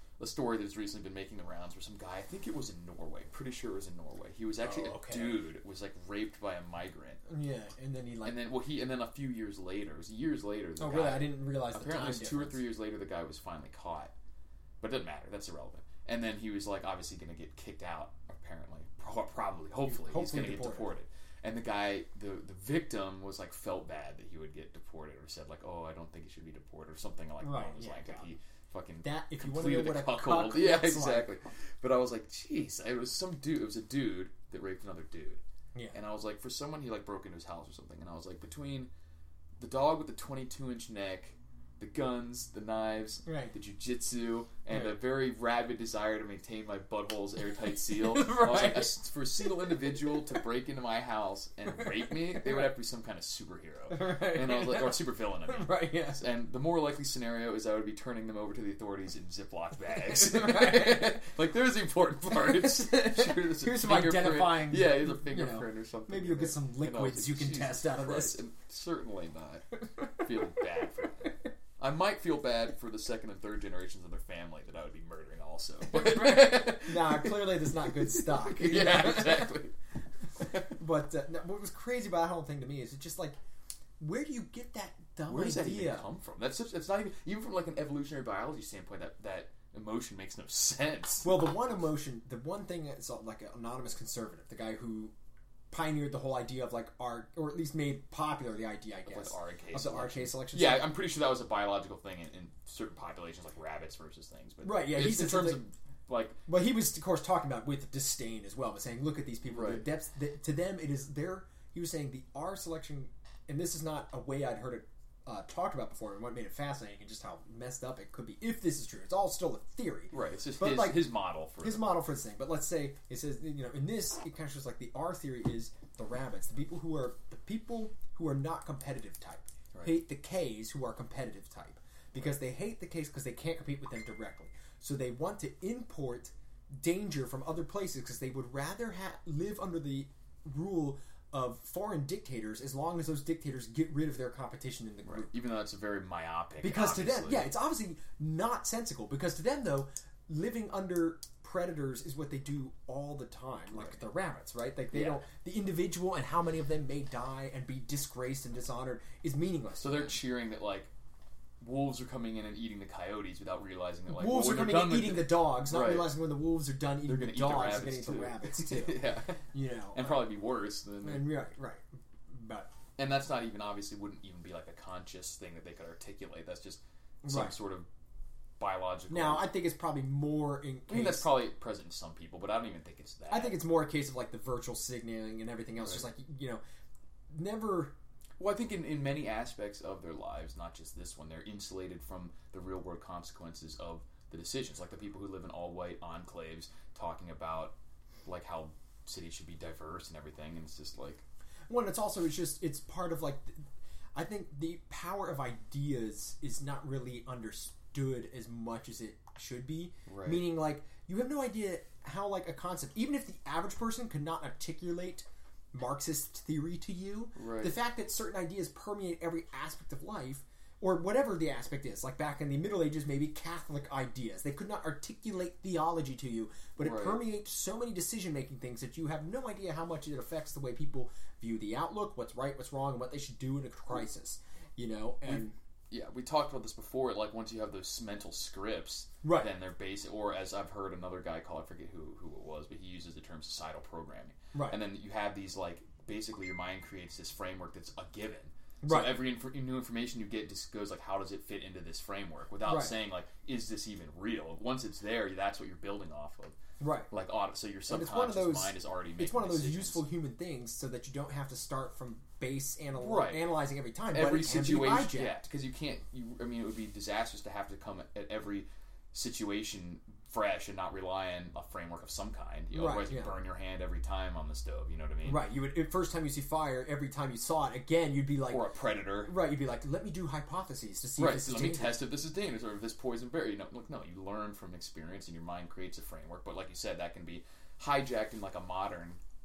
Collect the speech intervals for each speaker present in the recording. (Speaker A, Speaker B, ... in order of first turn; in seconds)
Speaker A: 0.2-7.2, 8.2-14.1, 14.8-35.4, 35.9-38.9, 39.6-79.7, 80.4-80.7, 85.2-91.5, 99.0-106.4, 109.5-109.9, 120.1-121.9, 129.7-130.0, 145.0-147.5, 153.7-154.0, 154.9-155.2, 159.8-160.9, 161.6-166.2, 167.0-169.4, 169.9-171.3, 173.0-177.9, 178.6-179.5, 180.9-183.6, 188.4-197.7, 198.2-201.2, 210.1-210.5, 217.3-217.8, 226.8-227.2, 235.2-256.6, 257.1-260.0, 262.9-263.5, 264.1-275.5, 278.5-279.4, 281.2-289.2
Speaker B: 4.6-5.5, 7.3-8.5, 10.8-12.6, 19.8-20.9, 27.4-28.2, 29.0-31.3, 43.2-43.5, 44.7-45.0, 47.9-50.0, 51.7-52.7, 53.9-56.2, 59.9-61.2, 62.3-68.4, 75.8-79.5, 80.4-83.4, 84.0-86.1, 91.2-95.1, 95.7-100.9, 104.6-105.6, 106.5-145.3, 146.6-160.2, 164.1-170.3, 171.0-172.7, 177.2-177.5, 179.1-181.3, 183.3-186.6, 187.3-187.9, 201.7-203.6, 204.1-235.5, 239.2-239.5, 244.5-244.8, 248.8-249.2, 252.6-252.9, 256.8-257.1, 257.9-265.4, 272.7-273.4, 275.2-278.7, 279.2-282.0